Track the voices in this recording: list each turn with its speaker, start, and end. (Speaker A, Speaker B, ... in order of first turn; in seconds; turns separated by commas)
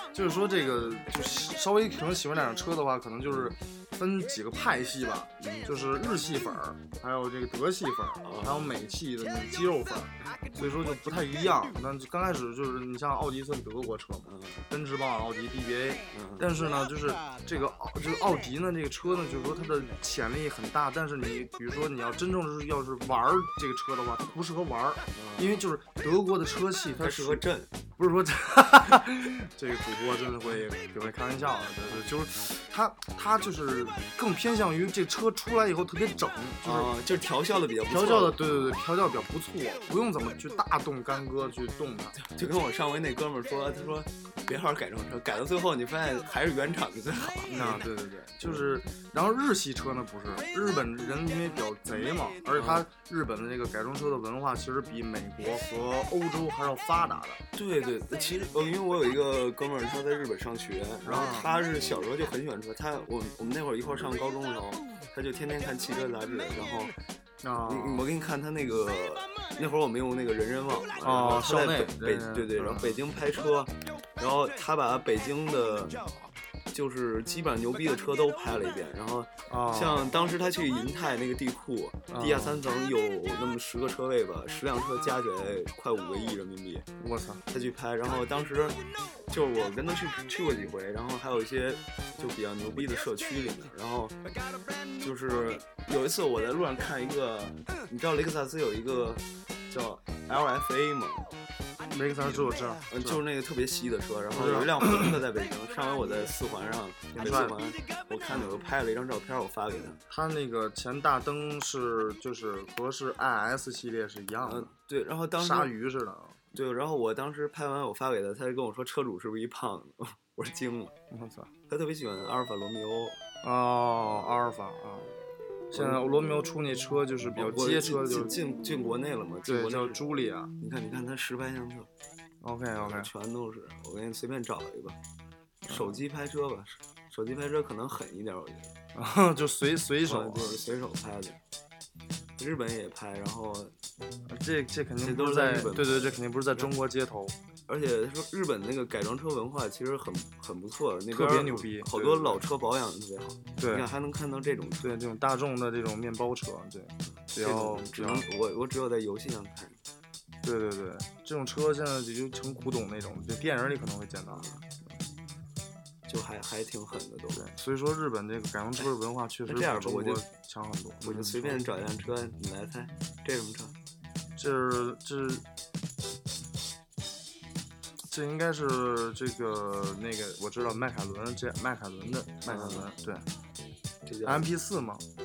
Speaker A: 0.1-27.4, Speaker B: 3.3-3.5, Speaker B: 5.4-5.7, Speaker B: 8.2-8.8, Speaker B: 14.2-14.6, Speaker B: 16.1-16.6, Speaker B: 25.1-25.6, Speaker B: 27.0-27.7, Speaker A: 28.0-36.9, Speaker B: 36.6-38.8, Speaker A: 37.9-42.2, Speaker B: 42.2-47.9, Speaker A: 47.5-57.4, Speaker B: 48.4-48.7, Speaker B: 52.5-52.9, Speaker B: 57.5-66.9, Speaker A: 61.0-61.5, Speaker A: 67.4-68.0, Speaker B: 67.6-76.1, Speaker A: 71.0-73.0, Speaker B: 76.7-86.9, Speaker A: 79.5-80.1, Speaker A: 82.1-82.6, Speaker A: 87.0-87.4, Speaker B: 87.5-94.2, Speaker B: 95.0-101.3, Speaker A: 101.9-103.2, Speaker B: 102.2-110.0, Speaker A: 104.3-105.2, Speaker A: 107.1-107.6, Speaker A: 110.1-114.7, Speaker B: 114.4-115.7, Speaker A: 115.4-116.4, Speaker B: 116.5-120.9, Speaker A: 121.1-121.5, Speaker B: 121.7-123.2, Speaker A: 123.4-125.1, Speaker A: 125.7-128.3, Speaker B: 125.7-126.3, Speaker B: 127.3-130.0, Speaker A: 129.4-130.5, Speaker B: 130.6-131.9, Speaker A: 132.4-133.1, Speaker B: 132.8-135.0, Speaker A: 135.7-136.0, Speaker B: 135.7-138.7, Speaker A: 138.9-140.8, Speaker B: 140.0-141.4, Speaker B: 142.4-143.7, Speaker A: 144.3-147.3, Speaker B: 145.0-146.7, Speaker B: 147.7-154.9, Speaker A: 151.1-152.4, Speaker A: 153.6-153.9, Speaker A: 154.8-158.2, Speaker B: 157.4-159.8, Speaker A: 160.4-164.5, Speaker B: 164.3-164.6, Speaker B: 166.1-167.4, Speaker A: 167.3-171.7, Speaker B: 169.4-170.2, Speaker B: 171.0-173.7, Speaker A: 174.3-175.4, Speaker A: 178.1-183.2, Speaker B: 182.4-182.9, Speaker B: 184.0-184.5, Speaker A: 184.2-185.0